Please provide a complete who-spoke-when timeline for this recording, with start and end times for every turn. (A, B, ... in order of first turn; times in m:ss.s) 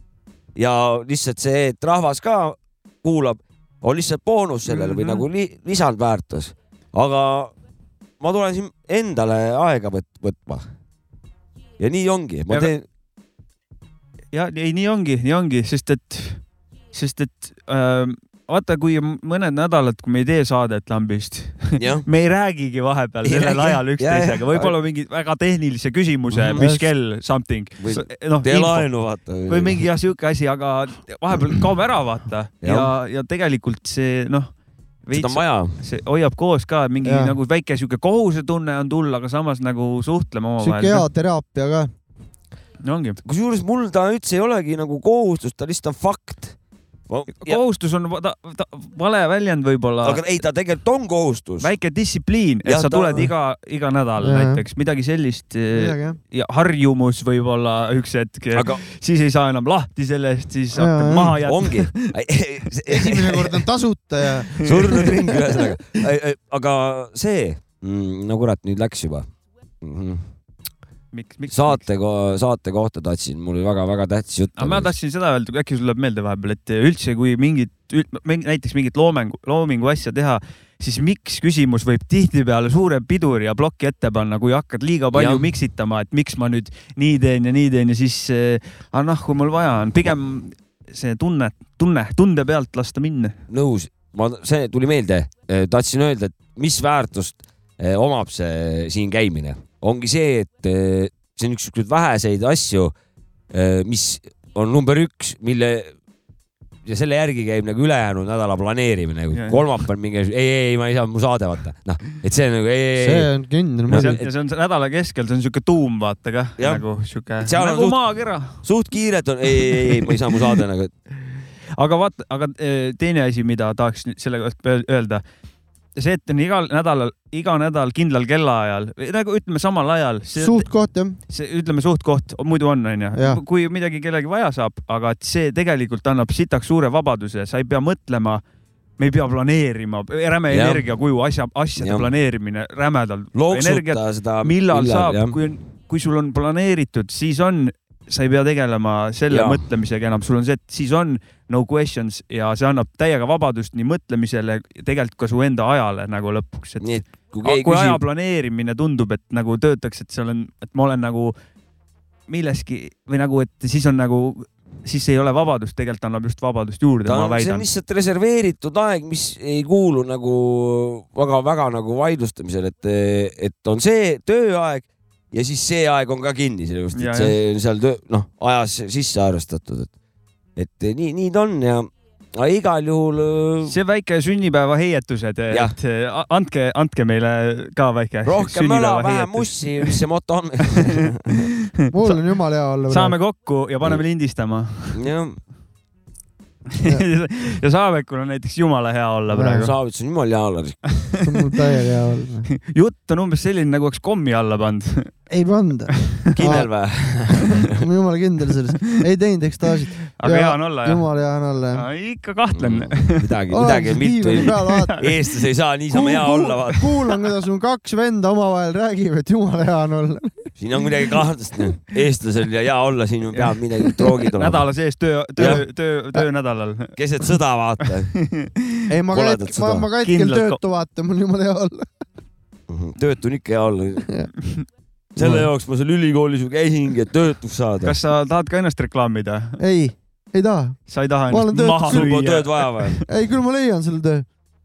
0:00.6-0:07.5 A
0:04.7-0:05.2 B
0:08.2-0:10.6 A
0:11.8-0:12.8 A
0:14.3-0:16.4 B
0:16.9-0:28.9 B
0:21.8-0:22.1 A
0:23.2-0:24.8 A
0:26.3-0:26.7 A
0:26.6-0:26.8 C
0:27.8-0:29.8 A
0:29.5-0:34.5 B
0:32.6-0:32.9 A
0:35.0-0:41.1 B
0:35.1-0:35.8 A
0:37.0-0:37.4 C
0:40.6-0:41.9 C
0:42.8-0:43.2 B
0:43.2-0:46.6 A
0:47.1-0:47.6 A
0:47.3-0:50.2 B
0:50.0-0:51.7 A
0:51.6-1:02.1 B
0:52.6-0:53.3 A
0:54.2-0:54.6 C
0:55.7-0:56.2 C
0:58.5-0:58.8 A
1:00.7-1:01.4 C
1:01.3-1:03.6 A
1:02.9-1:05.1 C
1:04.5-1:09.3 A
1:04.6-1:05.1 B
1:09.8-1:10.2 A
1:11.1-1:11.8 B
1:11.5-1:14.9 A
1:14.6-1:33.4 B
1:25.1-1:25.5 A
1:33.5-1:42.9 A
1:43.5-1:45.9 A
1:46.9-1:53.3 A
1:49.3-1:49.6 B
1:53.0-1:54.2 C
1:53.9-1:54.2 A
1:53.9-1:58.6 B
1:56.6-1:56.8 A
1:57.4-1:58.0 A
1:58.6-2:00.9 A
1:59.8-2:00.1 B
2:01.8-2:05.2 B
2:06.0-2:10.7 B
2:10.4-2:11.2 C
2:11.3-2:18.4 B
2:13.2-2:13.4 C
2:19.0-2:41.3 B
2:20.5-2:20.8 A
2:21.8-2:22.1 A
2:23.4-2:25.4 A
2:29.3-2:29.6 A
2:36.8-2:38.0 A
2:42.3-2:47.7 B
2:47.0-2:59.9 A
2:57.0-2:57.4 B
3:00.6-3:03.7 A
3:03.7-3:10.0 B
3:08.2-3:11.5 A
3:11.9-3:13.2 C
3:12.9-3:15.0 B
3:14.9-3:15.4 A
3:16.8-3:19.7 B
3:19.3-3:19.7 C
3:19.6-3:20.8 A
3:21.2-3:22.5 C
3:22.6-3:25.1 B
3:25.3-3:26.7 C
3:26.4-3:27.7 A
3:27.6-3:31.8 C
3:30.2-3:31.0 B
3:31.7-3:33.3 B
3:32.5-3:36.9 A
3:33.5-3:35.0 C
3:34.4-3:35.1 B
3:35.9-3:40.5 C
3:40.6-3:44.7 A
3:44.3-3:46.9 B
3:45.4-3:45.6 A
3:47.0-3:48.1 A
3:48.2-3:48.8 B
3:48.9-3:51.9 C
3:49.1-3:49.9 A
3:50.0-3:50.6 B
3:52.7-3:54.0 A
3:55.2-3:58.0 A
3:55.2-3:55.5 C
3:57.8-3:59.6 B
3:59.6-4:02.1 C
4:00.9-4:03.0 B
4:01.8-4:03.0 A
4:03.1-4:04.2 C